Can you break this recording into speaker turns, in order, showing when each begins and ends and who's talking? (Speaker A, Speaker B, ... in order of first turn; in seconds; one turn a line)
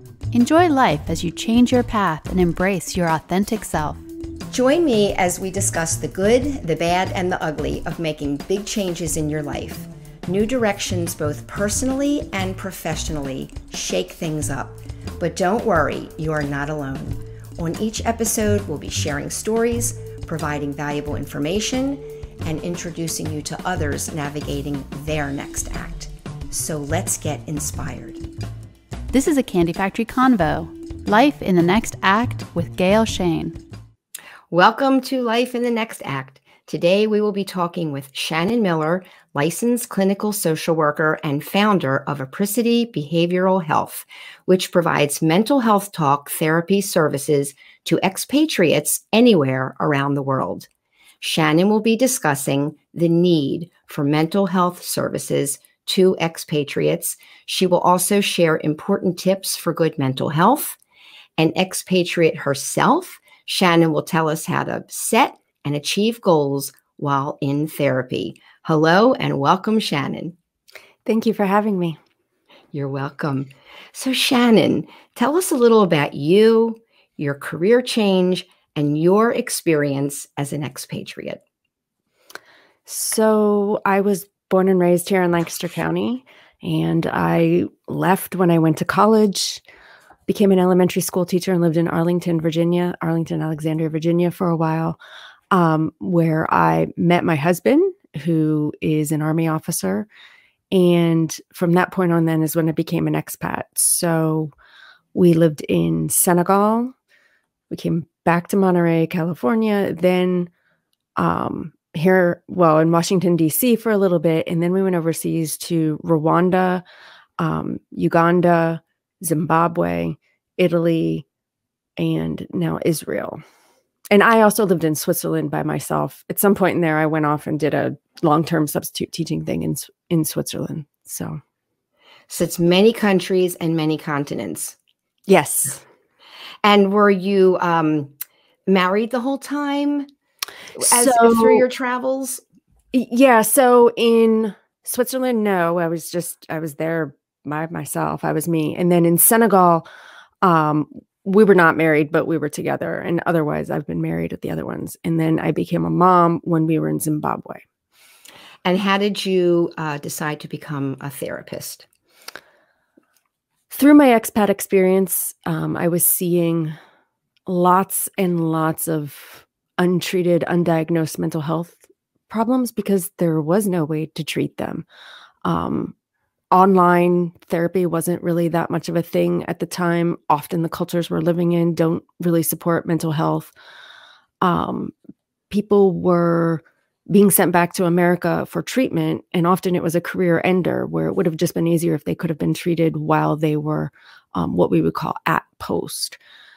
Speaker A: 0.3-4.0
Speaker B: 4.5-28.2
Speaker A: 29.1-33.6
Speaker B: 34.5-50.7
Speaker B: 51.2-60.8
Speaker B: 61.4-70.3
Speaker C: 71.0-72.0
Speaker B: 72.7-81.4
Speaker C: 82.9-89.6
Speaker C: 90.3-95.0
Speaker C: 95.5-100.1
Speaker C: 100.7-104.5
Speaker C: 105.1-106.9
Speaker C: 107.7-110.5
Speaker C: 111.2-116.8
Speaker C: 117.4-121.2
Speaker C: 122.0-123.4
Speaker C: 124.1-131.4
Speaker B: 132.3-134.8
Speaker C: 135.3-135.8
Speaker B: 136.6-138.1
Speaker B: 138.7-140.1
Speaker B: 140.7-142.4
Speaker C: 140.8-141.7
Speaker C: 142.9-149.8
Speaker C: 150.4-157.6
Speaker B: 158.6-161.9
Speaker C: 163.7-166.8
Speaker C: 167.5-174.8
Speaker C: 175.4-175.9
Speaker C: 176.5-183.5
Speaker C: 184.4-184.9
Speaker C: 185.5-196.2